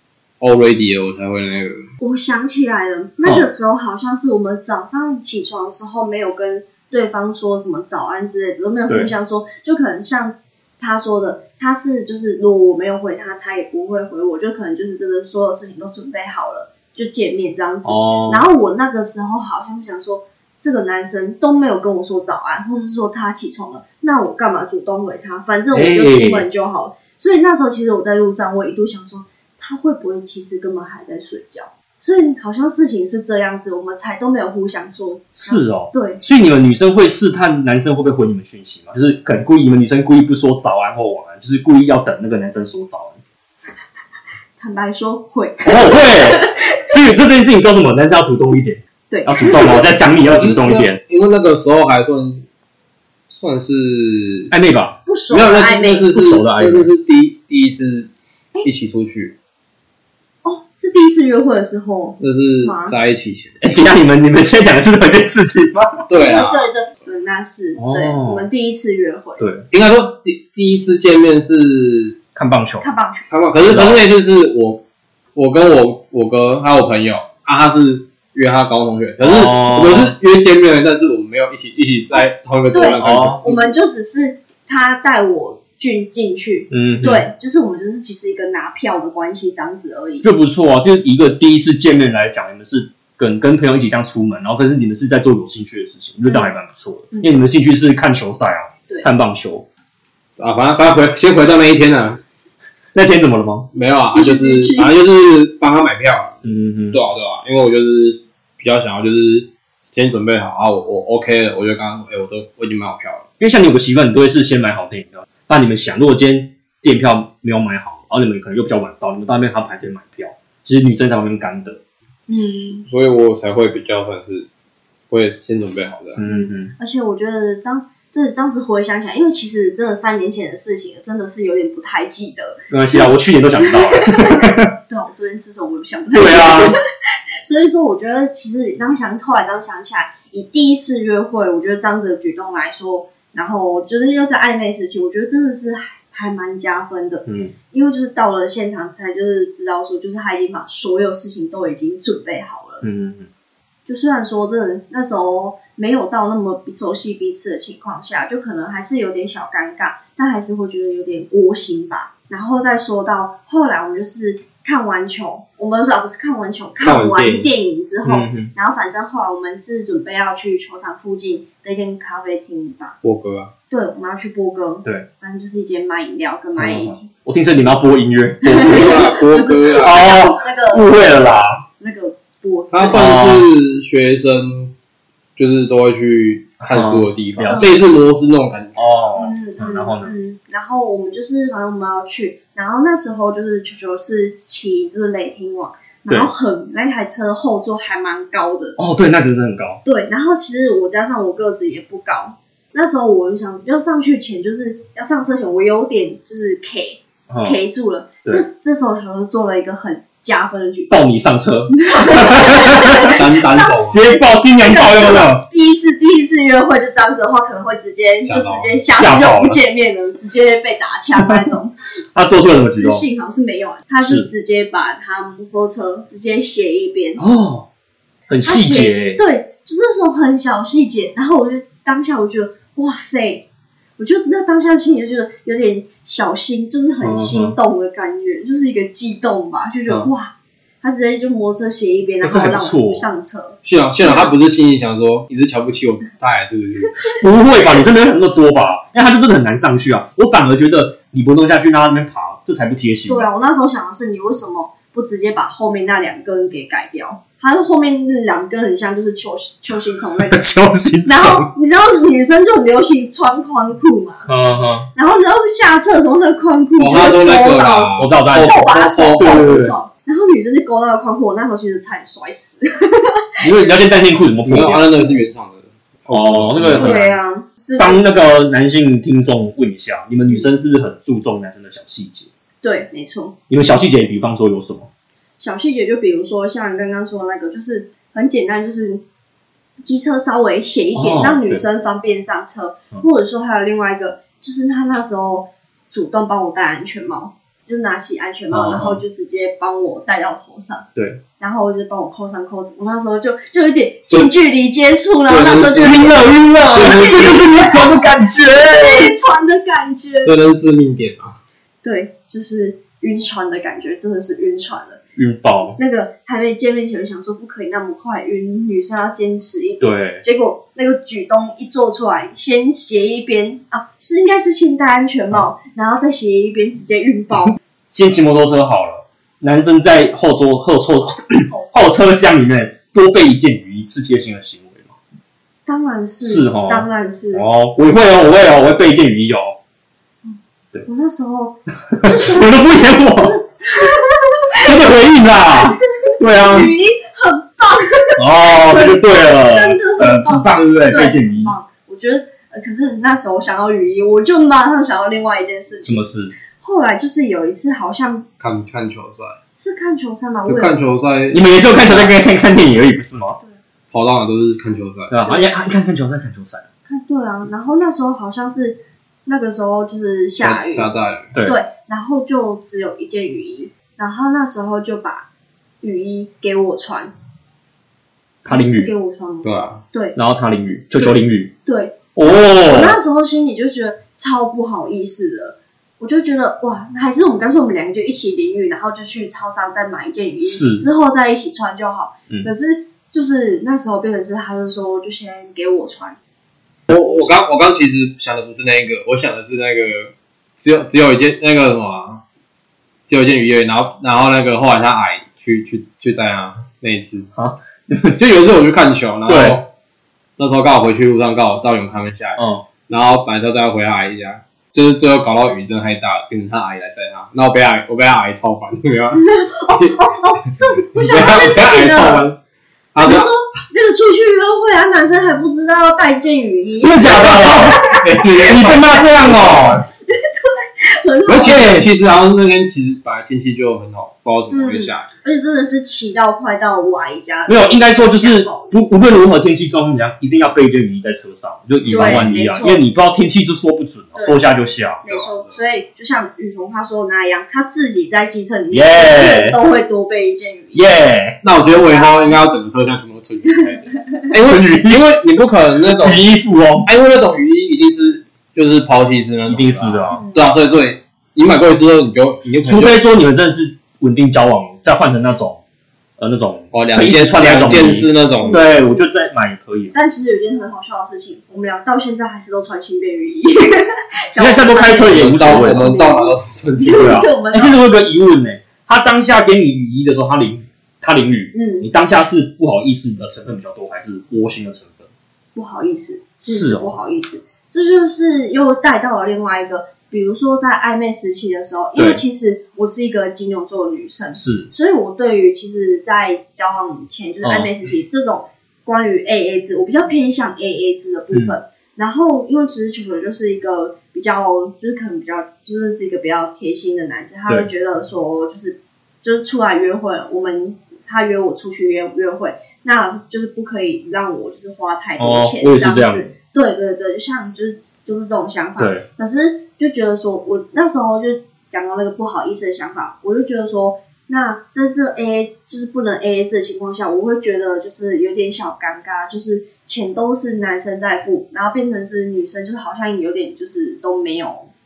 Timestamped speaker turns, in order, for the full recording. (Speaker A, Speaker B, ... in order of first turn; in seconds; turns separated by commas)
Speaker A: 0.4-1.9, Speaker B: 2.0-36.2, Speaker C: 17.8-18.4, Speaker C: 25.7-26.5, Speaker C: 35.4-43.2, Speaker B: 44.6-46.9, Speaker C: 45.6-51.0, Speaker B: 49.1-49.8, Speaker A: 50.2-52.5, Speaker A: 53.3-54.5, Speaker C: 54.5-55.0, Speaker B: 55.0-56.1, Speaker A: 55.3-58.1, Speaker C: 56.1-56.9, Speaker A: 58.6-59.3, Speaker B: 60.4-63.0, Speaker A: 62.2-63.8, Speaker C: 63.6-66.1, Speaker A: 66.1-66.7, Speaker B: 66.2-69.5, Speaker C: 67.8-68.5, Speaker C: 69.4-69.7, Speaker A: 69.7-72.2, Speaker C: 72.3-72.8, Speaker B: 72.8-73.3, Speaker A: 73.3-74.8, Speaker C: 73.6-74.0, Speaker A: 75.3-83.7, Speaker C: 79.2-80.2, Speaker B: 82.7-90.3, Speaker C: 83.0-83.4, Speaker C: 86.7-87.3, Speaker C: 90.2-99.7, Speaker A: 100.4-102.2, Speaker C: 102.9-103.7, Speaker A: 103.7-106.4, Speaker B: 104.1-104.9, Speaker C: 106.4-107.0, Speaker A: 106.9-113.3, Speaker C: 113.4-121.8, Speaker B: 122.3-122.8, Speaker A: 122.8-124.5, Speaker A: 125.1-126.2, Speaker C: 126.2-126.7, Speaker B: 126.2-133.0, Speaker C: 132.7-134.7, Speaker B: 133.6-136.8, Speaker C: 136.1-136.8, Speaker B: 137.4-152.8, Speaker C: 147.2-147.5, Speaker C: 152.8-153.3, Speaker B: 153.8-173.0, Speaker A: 166.8-167.5, Speaker C: 168.0-168.5, Speaker A: 173.0-173.5, Speaker B: 173.7-177.1, Speaker C: 176.6-179.1, Speaker B: 178.5-181.1, Speaker A: 178.6-180.0, Speaker C: 179.7-181.6, Speaker B: 181.8-183.1, Speaker A: 182.7-184.7, Speaker C: 182.9-183.4, Speaker A: 185.3-188.9, Speaker C: 186.6-187.8, Speaker B: 187.5-187.8, Speaker C: 188.8-190.1, Speaker B: 189.2-198.8, Speaker C: 196.1-196.3, Speaker C: 198.8-199.8, Speaker B: 199.8-211.0, Speaker C: 207.3-207.6, Speaker C: 210.9-213.1, Speaker B: 211.7-221.7, Speaker A: 213.1-214.0, Speaker C: 213.9-215.4, Speaker A: 218.2-218.8, Speaker C: 218.9-219.6, Speaker C: 222.1-223.1, Speaker B: 222.8-227.2, Speaker C: 224.0-224.3, Speaker C: 227.2-227.7, Speaker C: 228.3-229.2, Speaker B: 228.4-233.4, Speaker B: 234.0-244.3, Speaker C: 237.0-237.6, Speaker C: 242.2-243.1, Speaker A: 243.6-247.1, Speaker C: 247.2-253.3, Speaker B: 253.1-260.4, Speaker C: 260.2-261.5, Speaker B: 261.1-264.3, Speaker C: 264.3-264.9, Speaker B: 264.9-273.4, Speaker A: 266.8-269.6, Speaker C: 268.0-269.7, Speaker C: 273.4-274.9, Speaker A: 274.4-277.1, Speaker C: 276.1-277.1, Speaker B: 276.8-278.1, Speaker C: 277.8-282.3, Speaker B: 282.6-283.3, Speaker C: 283.5-284.9, Speaker B: 285.4-289.0, Speaker B: 289.8-300.9, Speaker C: 290.9-291.6, Speaker C: 298.5-299.0, Speaker C: 300.9-301.2, Speaker B: 301.4-308.0, Speaker A: 305.2-307.9, Speaker C: 306.6-309.1, Speaker B: 308.6-310.3, Speaker A: 310.2-311.4, Speaker B: 311.8-315.0, Speaker C: 315.1-315.8, Speaker B: 315.8-327.6, Speaker C: 319.8-320.2, Speaker C: 327.9-334.9, Speaker B: 335.6-337.4, Speaker C: 336.2-339.6, Speaker B: 340.2-344.8, Speaker C: 341.9-343.4, Speaker C: 344.6-346.7, Speaker B: 345.5-356.0, Speaker C: 348.2-351.5, Speaker C: 355.8-356.3, Speaker B: 356.6-358.2, Speaker A: 358.4-359.3, Speaker B: 359.6-360.8, Speaker A: 360.5-362.1, Speaker C: 361.3-363.4, Speaker A: 363.9-365.1, Speaker C: 365.1-366.6, Speaker B: 366.9-370.9, Speaker A: 370.4-371.3, Speaker C: 371.3-371.6, Speaker B: 371.4-375.3, Speaker B: 375.8-377.1, Speaker C: 378.4-378.9, Speaker B: 378.5-380.2, Speaker A: 379.4-379.8, Speaker C: 380.1-381.5, Speaker B: 380.9-382.0, Speaker C: 382.1-383.0, Speaker B: 382.6-396.2, Speaker C: 390.4-390.9, Speaker C: 396.9-397.3, Speaker A: 396.9-402.2, Speaker A: 403.1-407.3, Speaker C: 407.3-408.2, Speaker A: 408.2-409.7, Speaker C: 409.3-409.6, Speaker A: 410.4-420.1, Speaker C: 412.4-412.6, Speaker B: 419.2-422.3, Speaker A: 420.9-422.4, Speaker A: 422.9-423.3, Speaker B: 423.0-429.0, Speaker C: 426.8-429.8, Speaker A: 427.6-429.8, Speaker B: 430.1-431.7, Speaker A: 431.3-435.1, Speaker C: 431.5-431.9, Speaker B: 434.5-438.7, Speaker C: 437.5-445.0, Speaker A: 441.8-442.3, Speaker B: 441.9-442.8, Speaker B: 445.0-450.9, Speaker A: 445.1-445.5, Speaker C: 448.7-449.6, Speaker C: 450.7-451.4, Speaker A: 451.4-456.2, Speaker B: 451.6-452.3, Speaker B: 453.5-454.1, Speaker C: 454.4-455.0, Speaker C: 455.9-456.9, Speaker A: 456.8-463.0, Speaker C: 459.5-460.2, Speaker C: 462.6-465.6, Speaker C: 466.2-469.9, Speaker A: 466.7-468.6, Speaker B: 468.4-468.8, Speaker B: 469.9-477.8, Speaker C: 474.4-475.9, Speaker A: 474.9-477.2, Speaker C: 476.9-485.1, Speaker B: 481.5-481.9, Speaker B: 485.5-534.7, Speaker C: 486.4-487.0, Speaker C: 492.0-492.2, Speaker C: 494.4-494.7, Speaker C: 497.4-497.7, Speaker C: 515.2-516.3, Speaker C: 518.8-519.0